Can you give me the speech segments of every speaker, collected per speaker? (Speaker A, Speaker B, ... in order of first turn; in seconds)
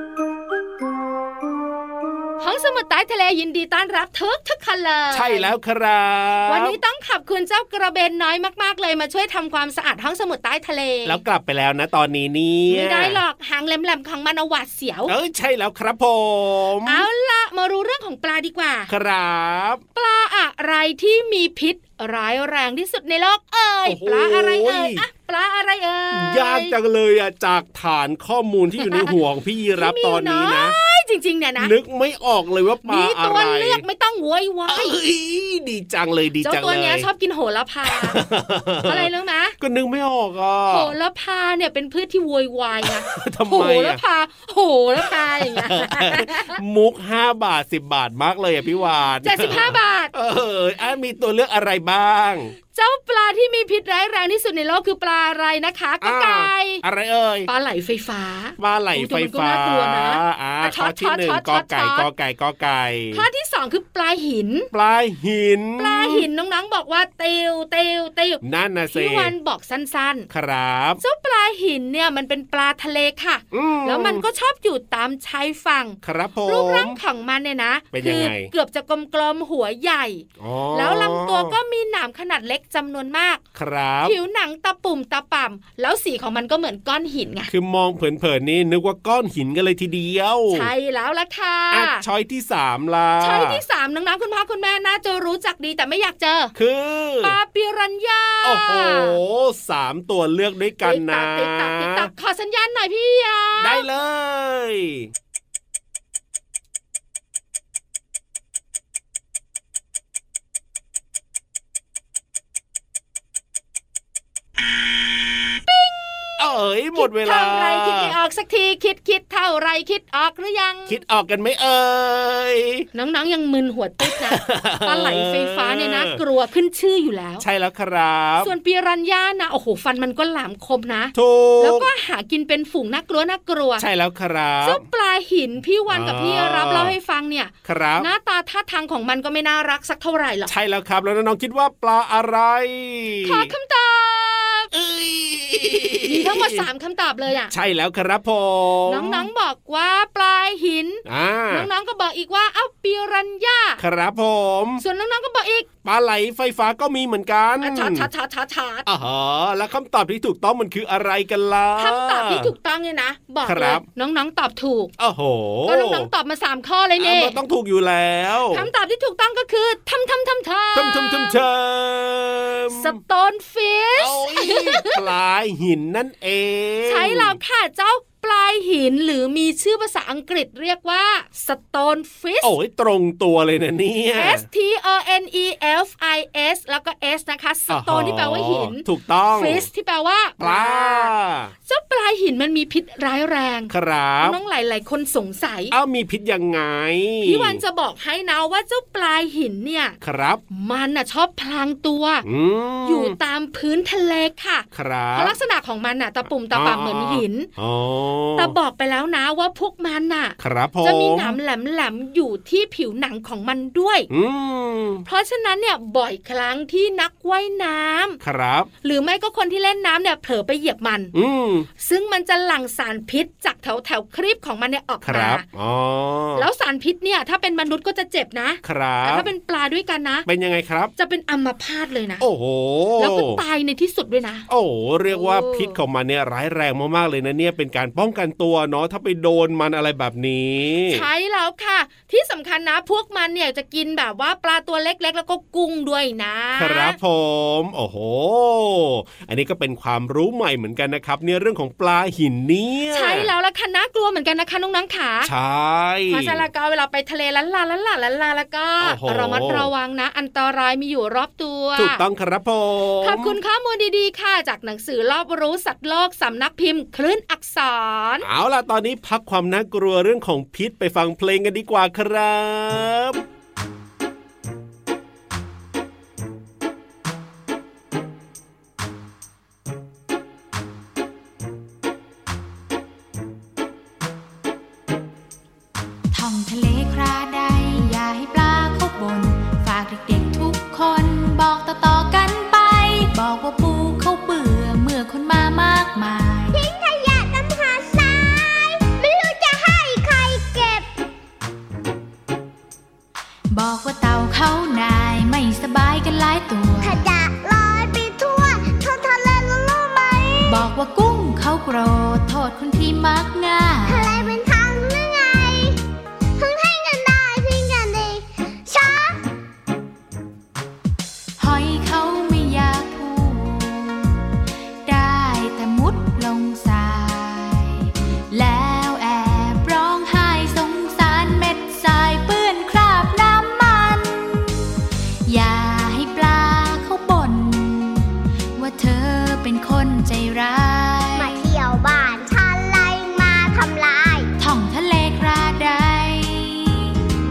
Speaker A: 2.4-5.5, 6.5-11.2, 12.7-15.1, 16.9-18.9, 19.9-26.7, 28.8-29.1, 29.8-31.7, 32.8-35.0, 36.4-38.2, 38.9-39.5, 40.7-46.6, 49.2-50.1, 52.7-56.8, 57.5-62.1, 63.1-64.7, 65.8-70.3, 71.0-83.4, 84.0-87.5, 90.5-92.0, 93.2-96.5, 97.2-99.2, 100.8-103.8, 115.7-116.4, 116.9-121.0, 122.9-127.4, 128.4-133.8, 134.6-140.5, 143.2-144.7, 146.0-147.5, 148.9-153.8, 154.8-155.7, 157.6-158.8, 161.8-164.9, 165.7-167.4, 168.5-171.4, 172.7-174.9, 176.8-182.5, 184.2-191.1, 191.7-195.7, 197.2-200.0, 200.5-202.2, 202.8-207.5, 208.4-214.1, 215.0-218.2, 218.8-221.1, 221.8-225.4, 226.3-230.2, 231.0-232.2, 233.0-234.4, 235.1-235.8, 240.9-247.0, 252.9-255.3, 256.1-262.0, 263.0-268.2
Speaker B: 5.1-6.8, 11.0-13.2, 15.1-17.1, 18.9-19.8, 23.8-25.0, 26.1-30.8, 31.6-33.8, 34.7-37.1, 37.9-40.9, 43.0-44.0, 45.1-52.5, 56.0-57.5, 58.6-63.3, 64.7-66.3, 68.4-69.3, 70.3-71.0, 73.5-74.2, 76.0-77.0, 77.9-78.5, 80.4-81.5, 83.5-84.2, 87.5-90.7, 91.7-93.6, 96.5-97.3, 98.4-102.1, 103.6-105.1, 116.4-118.1, 120.9-122.9, 124.1-126.2, 127.4-128.5, 131.1-131.9, 133.8-134.8, 135.9-136.9, 137.6-138.1, 140.5-143.5, 144.7-146.6, 147.5-149.3, 151.1-151.7, 153.8-154.8, 155.8-158.1, 158.8-162.5, 163.4-163.8, 165.0-166.1, 167.0-168.7, 170.7-173.0, 174.0-177.4, 182.4-184.4, 187.7-189.7, 190.4-191.5, 193.7-194.4, 195.7-197.6, 200.0-200.4, 202.2-203.1, 204.7-205.3, 206.5-208.5, 210.4-211.4, 214.1-215.0, 218.2-218.7, 221.1-221.7, 225.0-226.5, 228.6-229.3, 230.2-230.9, 232.2-233.4, 234.5-241.0, 246.6-253.3, 255.2-256.4, 258.8-259.7, 261.8-263.4, 268.2-273.2
Speaker C: 286.1-296.6, 303.5-307.0, 310.5-314.3, 321.4-324.2, 324.8-334.4, 335.2-341.4, 344.4-346.9
Speaker D: 296.5-300.9, 306.8-310.6, 313.8-315.8, 316.4-319.2, 341.1-344.3